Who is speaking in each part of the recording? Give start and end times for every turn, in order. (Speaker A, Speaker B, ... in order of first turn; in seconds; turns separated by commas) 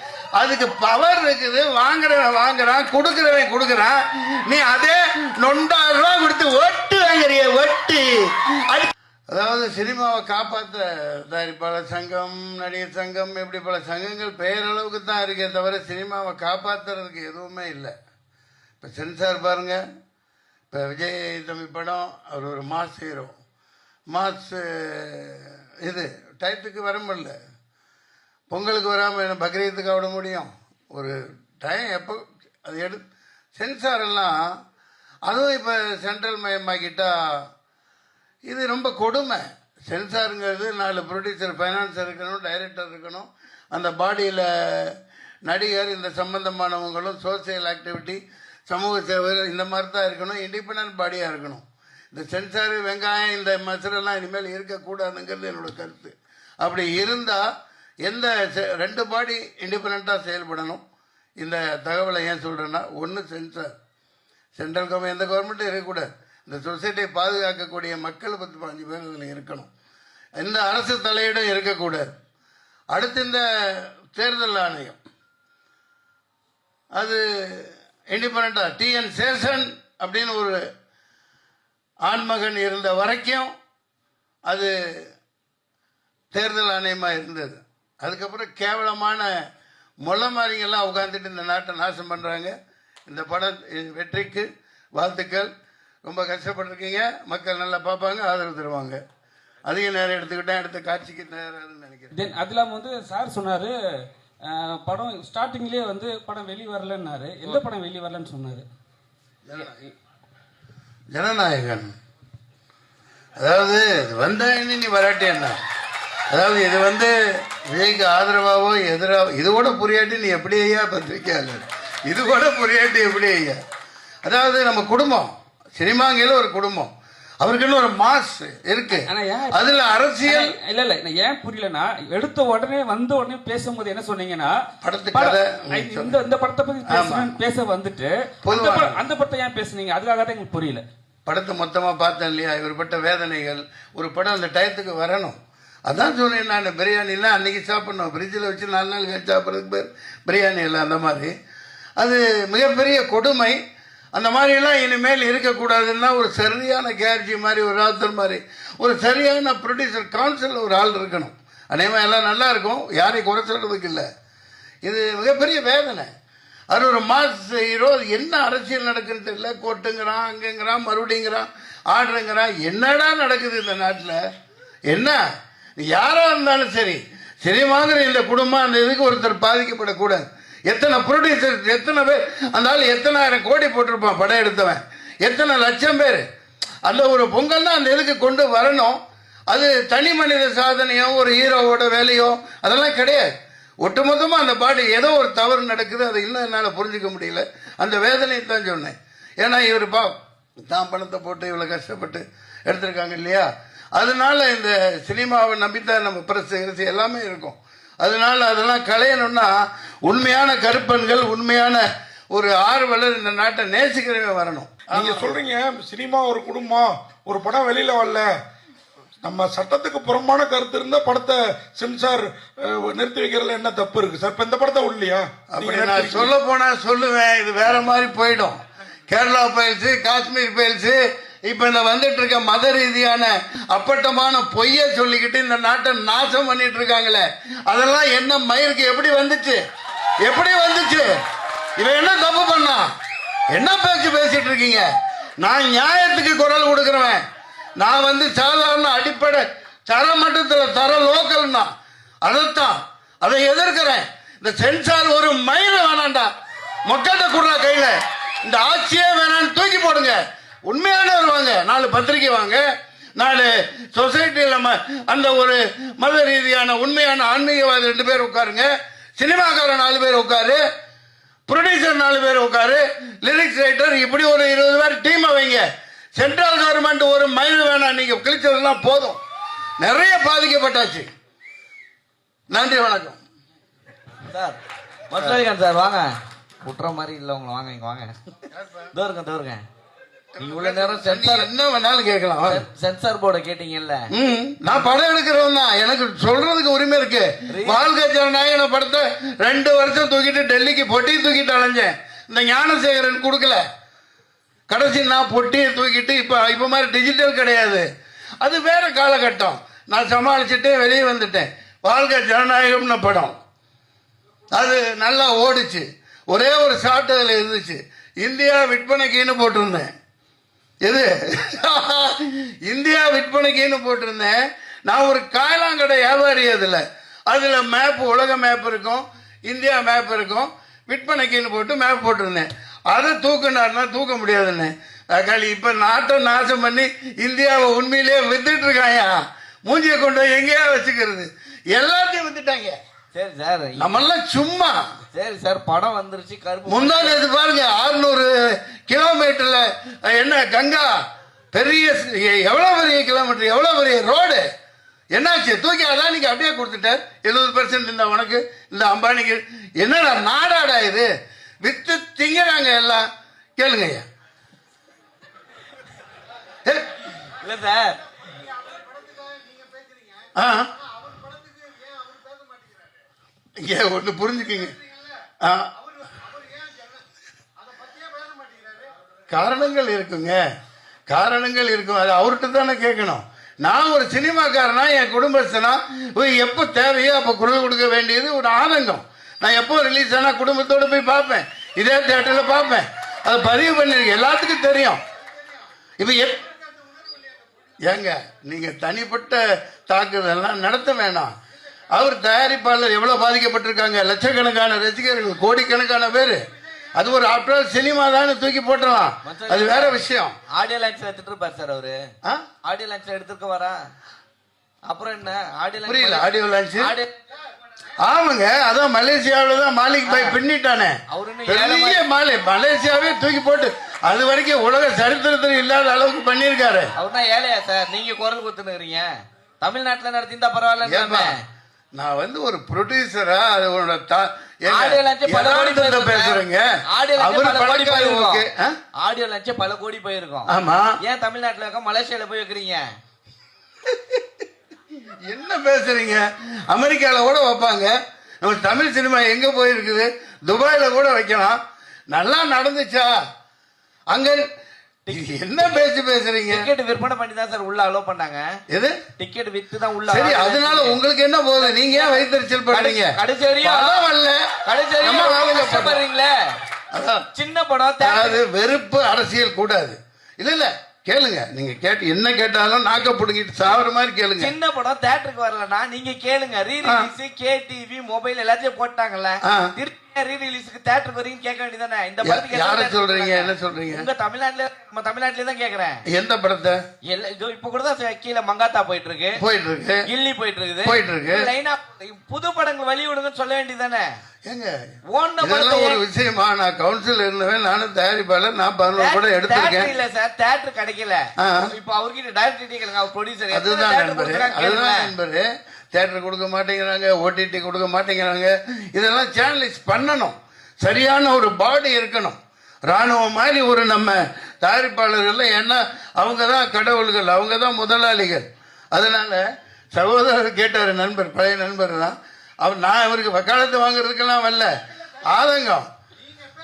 Speaker A: 0.4-17.9, Speaker A: 18.8-19.8, Speaker A: 20.7-23.3, Speaker A: 24.1-27.4, Speaker A: 28.5-33.0, Speaker A: 33.6-34.4, Speaker A: 35.3-37.5, Speaker A: 38.5-57.5, Speaker A: 58.1-60.8, Speaker A: 61.4-63.7, Speaker A: 64.6-69.7, Speaker A: 70.4-72.1, Speaker A: 72.9-75.0, Speaker A: 77.0-80.6, Speaker A: 82.1-83.5, Speaker A: 84.5-85.1, Speaker A: 86.3-89.3, Speaker A: 90.0-92.5, Speaker A: 93.1-95.5, Speaker A: 96.0-99.0, Speaker A: 99.7-102.2, Speaker B: 102.1-103.8, Speaker B: 104.4-108.7, Speaker A: 109.5-109.8, Speaker A: 111.1-111.9, Speaker A: 113.4-115.6, Speaker A: 116.3-123.6, Speaker A: 124.2-126.9, Speaker A: 127.4-130.5, Speaker B: 129.0-134.6, Speaker A: 134.8-136.2, Speaker B: 135.1-140.8, Speaker A: 136.9-137.3, Speaker A: 138.4-139.0, Speaker A: 141.3-151.3, Speaker A: 152.0-153.6, Speaker A: 154.2-164.1, Speaker A: 164.8-166.1, Speaker A: 166.7-174.2, Speaker A: 174.9-175.2, Speaker A: 175.8-186.2, Speaker A: 186.9-189.0, Speaker A: 189.5-193.3, Speaker A: 193.8-200.2, Speaker A: 200.7-215.4, Speaker C: 214.9-218.3, Speaker C: 219.2-226.3, Speaker A: 225.5-239.6, Speaker A: 240.2-241.2, Speaker A: 241.8-242.9, Speaker A: 243.5-244.9, Speaker A: 245.4-247.2, Speaker A: 247.8-251.7, Speaker A: 252.2-256.3, Speaker A: 256.9-262.6, Speaker A: 263.2-270.6, Speaker A: 271.5-275.6, Speaker A: 276.2-279.2, Speaker A: 279.8-281.1, Speaker A: 282.5-283.2, Speaker D: 284.3-284.6, Speaker D: 285.1-286.1, Speaker D: 286.6-288.1, Speaker A: 288.5-288.9, Speaker D: 288.9-289.6, Speaker A: 290.4-292.6, Speaker D: 290.4-291.5, Speaker D: 292.4-294.0, Speaker A: 294.1-303.6, Speaker D: 297.5-297.8, Speaker A: 304.7-307.9, Speaker A: 308.4-313.4, Speaker A: 314.5-319.9, Speaker A: 320.9-324.4, Speaker A: 324.9-342.8, Speaker D: 343.1-343.9, Speaker A: 343.8-344.9, Speaker D: 345.1-347.2, Speaker A: 346.7-351.0, Speaker A: 351.5-354.5, Speaker A: 355.1-361.1, Speaker A: 361.6-364.1, Speaker A: 366.6-367.1, Speaker D: 367.3-368.0, Speaker A: 370.4-370.9, Speaker A: 373.6-374.8, Speaker A: 375.4-375.7, Speaker A: 379.3-380.4, Speaker A: 381.1-395.0, Speaker A: 396.0-396.5, Speaker A: 397.8-401.3, Speaker A: 401.9-406.4, Speaker A: 406.9-410.4, Speaker D: 409.2-410.0, Speaker D: 410.5-412.0, Speaker D: 412.6-413.8, Speaker D: 414.9-417.1, Speaker A: 415.9-416.9, Speaker A: 418.0-426.9, Speaker D: 420.1-420.4, Speaker D: 421.1-422.0, Speaker D: 427.0-429.1, Speaker D: 429.6-431.3, Speaker A: 430.8-431.3, Speaker A: 432.0-436.7, Speaker D: 434.7-438.4, Speaker A: 437.2-438.8, Speaker D: 439.0-440.5, Speaker A: 440.5-441.0, Speaker D: 441.0-442.8, Speaker A: 445.3-451.6, Speaker A: 452.1-453.1, Speaker A: 454.1-454.4, Speaker D: 455.1-455.8, Speaker A: 455.1-456.7, Speaker D: 456.5-458.4, Speaker A: 458.7-459.0, Speaker D: 459.2-461.0, Speaker A: 460.1-466.0, Speaker D: 461.6-462.2, Speaker D: 462.7-464.0, Speaker D: 464.6-466.3, Speaker A: 466.9-467.2, Speaker D: 467.3-468.4, Speaker A: 468.0-474.5, Speaker D: 474.4-486.0, Speaker A: 476.8-477.1, Speaker A: 479.4-479.7, Speaker A: 482.2-484.1, Speaker A: 486.1-486.8, Speaker D: 487.1-489.4, Speaker A: 489.4-490.1, Speaker D: 490.1-494.1, Speaker A: 490.8-491.5, Speaker A: 494.5-494.8, Speaker D: 495.1-496.0, Speaker A: 495.4-499.9, Speaker D: 499.0-505.1, Speaker A: 501.4-501.7, Speaker A: 503.5-524.7, Speaker A: 525.2-525.9